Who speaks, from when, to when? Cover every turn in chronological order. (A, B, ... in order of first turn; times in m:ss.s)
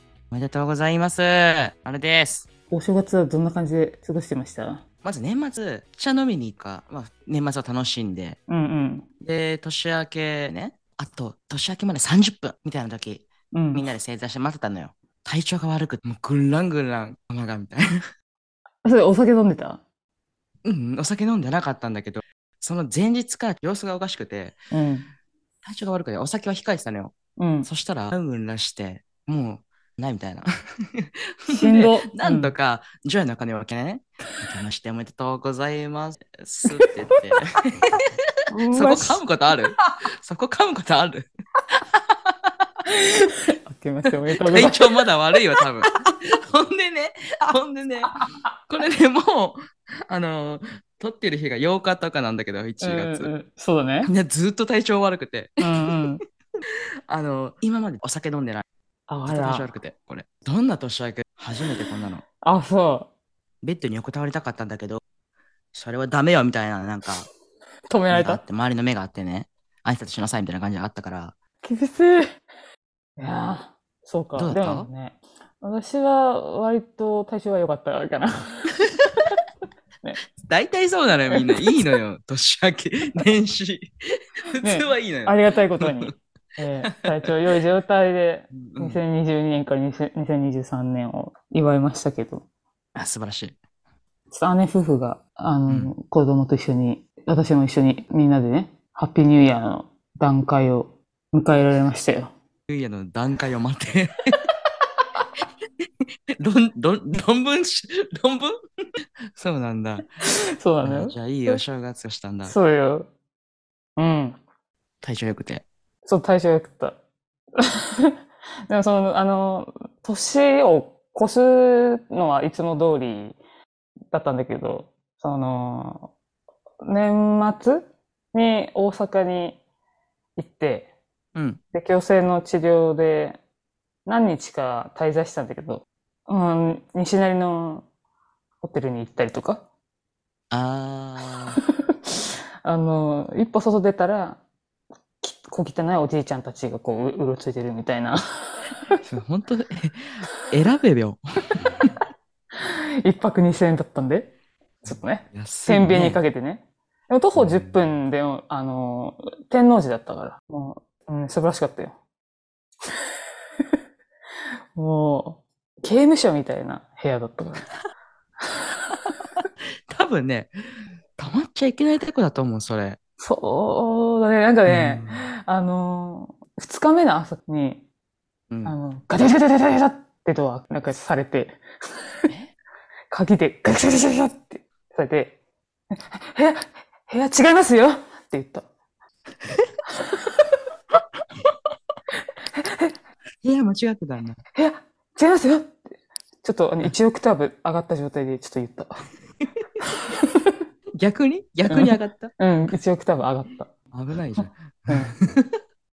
0:00.3-0:02.5 A
0:02.7-0:04.8 B
0:05.0-0:08.4 A
0:08.5-0:09.1 B
0:09.2-0:17.9 A
0:13.5-0:13.9 B
0:18.8-0:19.8 B
0:20.6-0:24.6 A
0:24.7-0:25.1 B
0:25.6-0:27.1 A
0:27.4-0:27.7 B
0:27.6-0:37.5 A
0:31.5-0:32.5 B
0:38.5-0:39.2 B
0:38.7-0:41.3 A
0:42.2-0:42.5 A
0:42.9-0:44.9 B
0:44.5-0:48.2 A
0:48.1-0:48.8 B
0:48.7-0:53.3 A
0:52.8-0:54.1 B
0:54.0-0:55.7 A
0:55.6-0:56.2 B
0:57.1-0:58.6 A
0:59.1-0:59.7 B
0:59.3-1:02.2 A
1:02.4-1:03.1 B
1:03.6-1:05.0 A
1:05.7-1:07.3 A
1:07.9-1:08.4 B
1:08.1-1:11.4 A
1:11.6-1:12.4 B
1:13.2-1:18.8 B
1:14.4-1:14.9 A
1:20.4-1:23.9 A
1:21.3-1:21.8 B
1:24.5-1:26.1 A
1:24.6-1:32.4 B
1:26.8-1:27.3 A
1:28.5-1:29.0 A
1:33.0-1:33.6 A
1:34.3-1:42.3 B
1:35.7-1:35.9 A
1:42.7-1:44.3 A
1:46.4-1:48.6 A
1:49.4-1:50.2 A
1:50.2-1:51.6 B
1:50.8-1:52.5 A
1:52.4-1:53.1 B
1:54.0-1:54.4 B
1:55.0-1:55.6 A
1:56.0-1:57.0 B
1:57.6-1:58.2 B
1:58.7-2:03.4 B
2:04.1-2:06.1 B
2:06.8-2:09.6 B
2:10.4-2:10.9 B
2:11.4-2:11.6 A
2:11.7-2:13.4 B
2:14.1-2:17.9 B
2:18.6-2:19.6 B
2:20.5-2:21.6 A
2:22.6-2:24.4 B
2:25.2-2:28.2 B
2:29.0-2:31.9 A
2:32.6-2:34.3 B
2:34.8-2:42.0 B
2:35.3-2:36.2 A
2:37.4-2:37.8 A
2:44.8-2:47.6 B
2:48.4-2:49.0 B
2:49.4-2:50.5 A
2:51.2-2:53.0 A
2:53.2-2:57.8 B
2:54.7-2:55.3 A
2:58.5-2:58.8 A
2:58.6-3:01.6 B
3:03.1-3:05.4 B
3:05.9-3:08.7 B
3:10.0-3:10.5 B
3:12.6-3:12.9 B
3:13.4-3:14.4 A
3:14.6-3:18.9 B
3:19.8-3:20.6 B
3:21.0-3:22.3 A
3:21.7-3:23.7 B
3:23.9-3:25.5 A
3:24.4-3:25.1 B